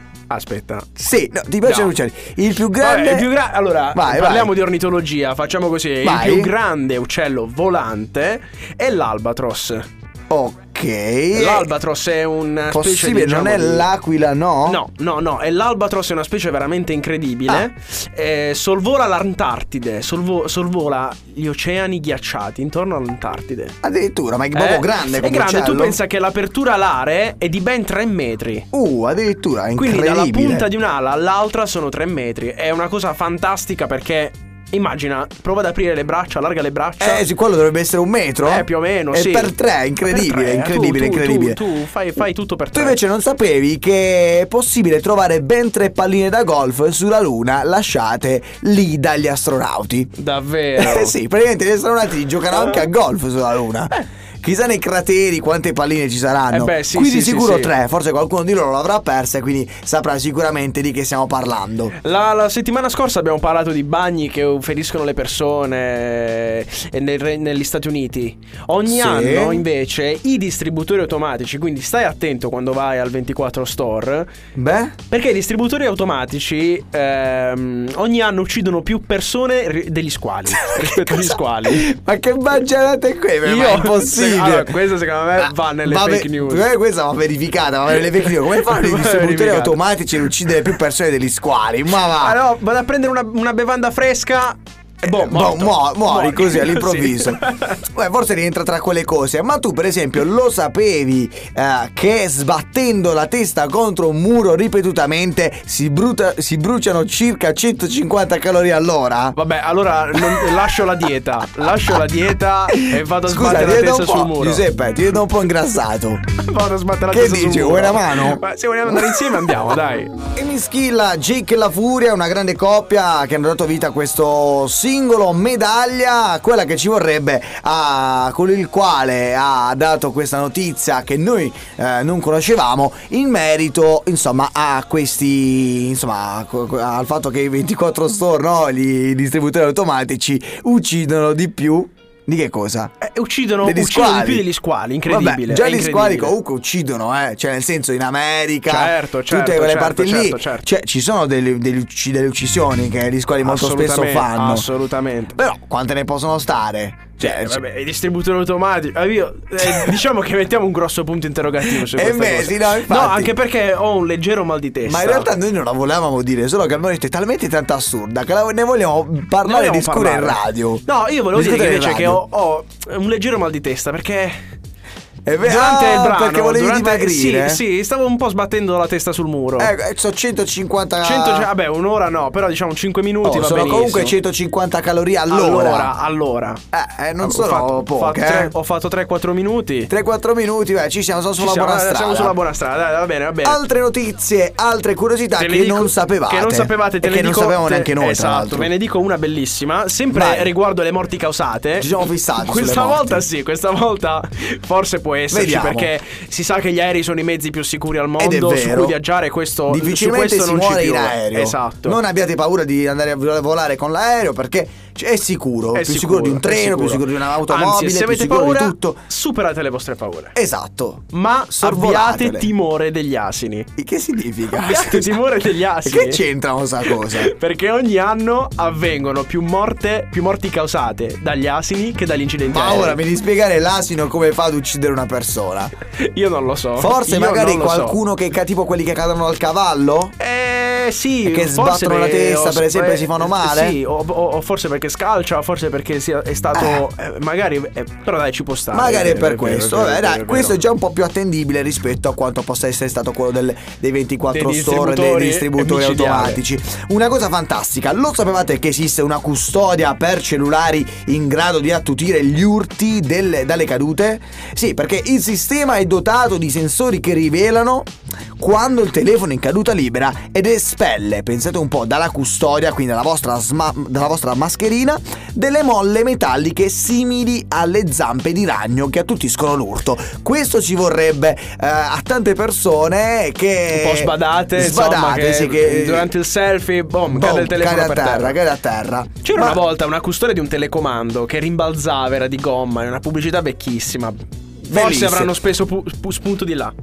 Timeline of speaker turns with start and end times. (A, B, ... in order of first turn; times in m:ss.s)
0:00.3-0:00.9 A
0:01.0-0:03.3 B
0:01.6-0:01.9 A
0:02.7-0:09.8 A
0:03.9-0:04.5 B
0:06.0-0:06.5 B
0:10.3-0:11.7 B
0:11.3-0:13.9 A
0:12.7-0:14.8 B
0:14.6-0:23.8 A
0:23.8-0:26.0 B
0:24.5-0:28.6 A
0:28.7-0:30.7 B
0:29.8-0:37.2 A
0:37.0-0:41.6 B
0:38.4-0:39.5 A
0:40.1-0:43.0 A
0:42.7-0:50.1 B
0:50.2-0:51.1 A
0:50.8-1:01.9 B
0:56.5-0:57.7 A
1:01.9-1:14.3 A
1:08.9-1:09.6 B
1:14.6-1:15.0 B
1:15.1-1:21.9 A
1:20.6-1:24.8 B
1:23.4-1:26.7 A
1:25.4-1:32.4 B
1:27.9-1:29.8 A
1:32.0-1:37.8 A
1:35.0-1:49.4 B
1:49.3-1:54.6 A
1:50.2-1:50.5 B
1:52.7-1:56.2 B
1:56.3-2:00.1 A
1:57.1-1:58.4 B
1:59.0-1:59.3 B
2:00.3-2:22.9 B
2:23.0-2:26.3 A
2:23.6-2:24.4 B
2:25.1-2:34.6 B
2:28.6-2:30.7 A
2:33.4-2:35.4 A
2:35.3-2:37.6 B
2:37.2-2:45.3 A
2:39.6-2:39.9 B
2:41.7-2:43.3 B
2:44.8-2:52.2 B
2:49.4-2:54.4 A
2:55.2-2:57.6 B
2:55.4-2:59.7 A
2:59.6-3:01.5 B
3:01.0-3:04.2 A
3:03.2-3:05.9 B
3:05.3-3:06.6 A
3:06.7-3:08.5 B
3:07.2-3:09.9 A
3:09.9-3:12.4 B
3:11.4-3:13.6 A
3:13.4-3:18.7 B
3:15.4-3:32.0 A
3:20.1-3:20.5 B
3:21.8-3:23.2 B
3:25.3-3:25.9 B
3:28.2-3:29.0 B
3:29.7-3:39.0 B
3:35.7-3:40.3 A
3:40.3-3:41.0 B
3:41.1-3:43.7 A
3:41.6-3:42.5 B
3:43.8-3:45.2 B
3:44.5-3:46.2 A
3:45.8-3:47.3 B
3:46.8-3:53.0 A
3:52.5-3:55.7 B
3:55.9-3:58.0 A
3:56.8-4:00.1 B
4:00.2-4:10.6 A
4:01.2-4:03.8 B
4:06.5-4:06.8 B
4:08.7-4:46.1 B
4:14.3-4:16.4 A
4:43.7-4:48.4 A
4:47.1-4:49.6 B
4:49.2-4:56.7 A
4:54.7-4:55.3 B